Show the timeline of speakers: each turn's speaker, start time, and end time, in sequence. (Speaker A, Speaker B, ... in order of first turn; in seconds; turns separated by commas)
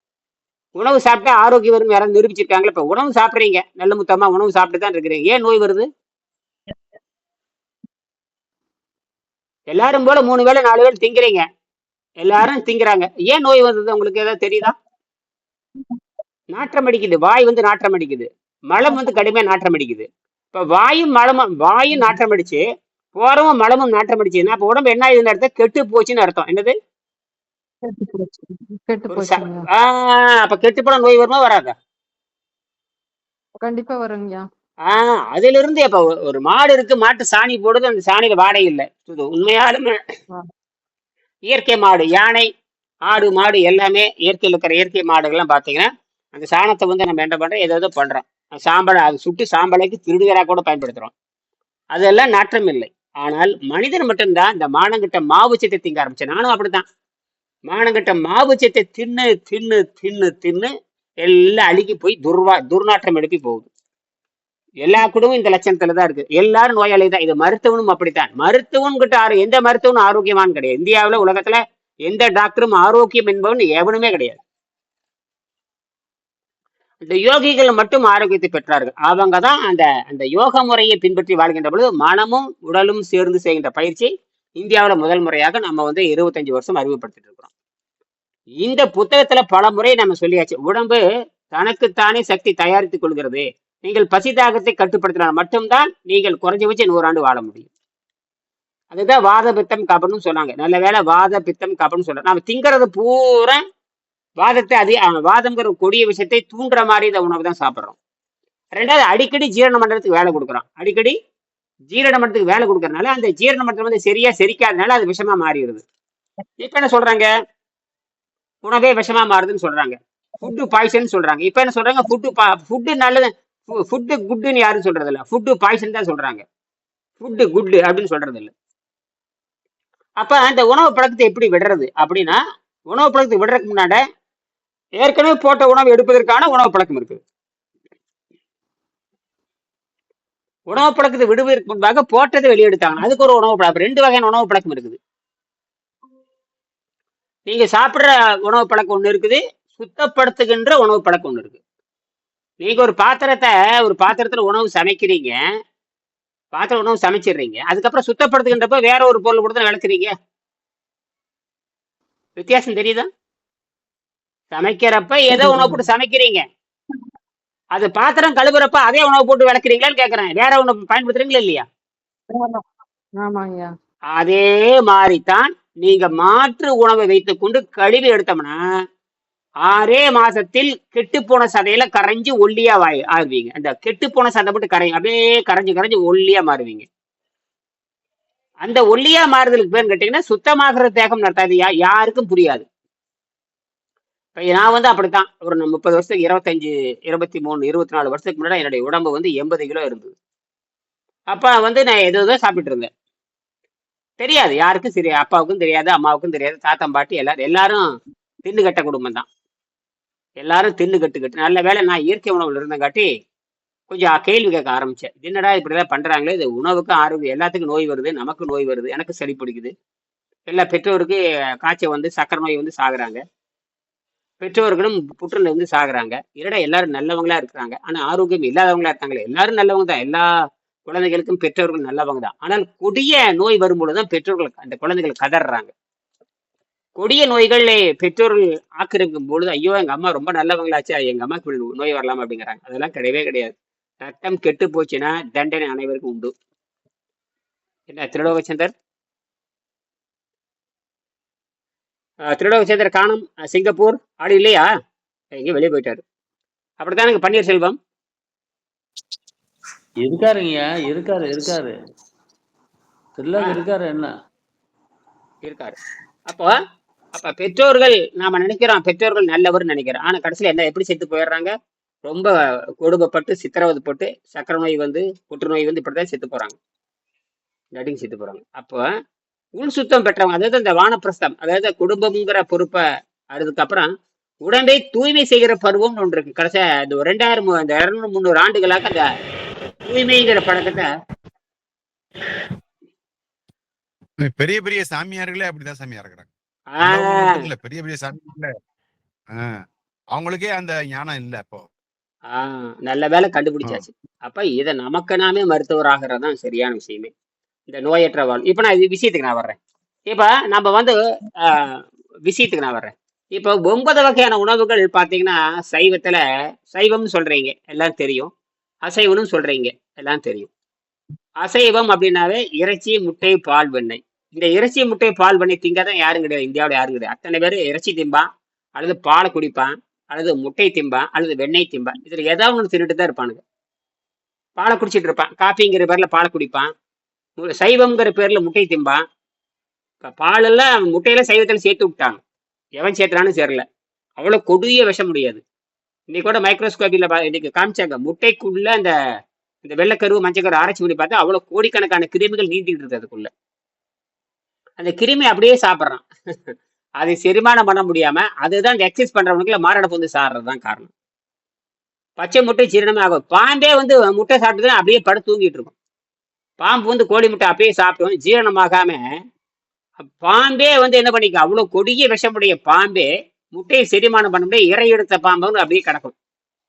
Speaker A: 0.8-5.9, Speaker A: 9.7-11.4, Speaker A: 12.2-14.7, Speaker A: 16.5-22.6, Speaker A: 23.2-26.7, Speaker B: 27.8-29.7, Speaker A: 29.1-31.7, Speaker B: 33.6-34.4, Speaker A: 34.9-39.9, Speaker A: 41.5-42.5, Speaker A: 43.1-51.1, Speaker A: 51.9-56.8, Speaker A: 57.7-60.7, Speaker A: 61.2-63.7, Speaker A: 64.8-74.4, Speaker A: 77.0-87.5, Speaker A: 88.6-97.7, Speaker A: 98.9-103.6, Speaker A: 104.4-108.0, Speaker A: 108.7-111.2, Speaker A: 111.9-115.8, Speaker A: 116.6-117.3, Speaker A: 118.6-126.4, Speaker A: 127.2-128.5, Speaker A: 130.2-132.4, Speaker A: 132.9-134.0, Speaker A: 135.0-137.2, Speaker A: 140.7-145.0, Speaker A: 147.5-151.6, Speaker A: 152.6-155.3, Speaker A: 156.5-160.1, Speaker A: 162.4-163.1, Speaker A: 164.5-166.4, Speaker B: 165.3-165.8, Speaker A: 167.7-171.7, Speaker B: 172.3-172.6, Speaker B: 173.2-173.7, Speaker A: 174.1-178.6, Speaker A: 179.6-186.8, Speaker A: 188.6-192.6, Speaker A: 194.3-200.1, Speaker A: 201.3-202.9, Speaker A: 204.2-207.8, Speaker A: 208.4-209.3, Speaker A: 210.4-213.1, Speaker A: 213.9-219.7, Speaker A: 220.5-223.2, Speaker A: 224.4-230.3, Speaker A: 230.9-235.7, Speaker A: 237.0-246.3, Speaker A: 247.9-248.7, Speaker A: 252.2-254.7, Speaker A: 255.3-256.0, Speaker A: 256.8-257.8, Speaker C: 260.0-261.7, Speaker C: 263.2-264.1, Speaker A: 263.4-263.6, Speaker A: 265.4-265.8, Speaker A: 266.3-266.5, Speaker A: 267.1-271.5, Speaker A: 272.1-276.5, Speaker A: 277.8-278.8, Speaker A: 279.6-282.8, Speaker A: 283.3-283.9, Speaker A: 284.4-289.1, Speaker A: 289.8-290.9, Speaker D: 294.2-296.3, Speaker A: 296.7-297.4, Speaker D: 296.8-298.5, Speaker D: 300.1-301.7, Speaker A: 302.3-307.1, Speaker A: 307.7-309.6, Speaker A: 310.1-318.3, Speaker A: 318.9-320.5, Speaker A: 321.4-333.4, Speaker A: 334.6-336.7, Speaker A: 337.4-339.0, Speaker A: 340.0-342.2, Speaker A: 342.8-343.6, Speaker A: 344.2-345.4, Speaker A: 346.1-348.9, Speaker A: 349.6-353.3, Speaker A: 354.8-360.9, Speaker A: 362.2-365.7, Speaker A: 366.6-369.0, Speaker A: 370.0-376.1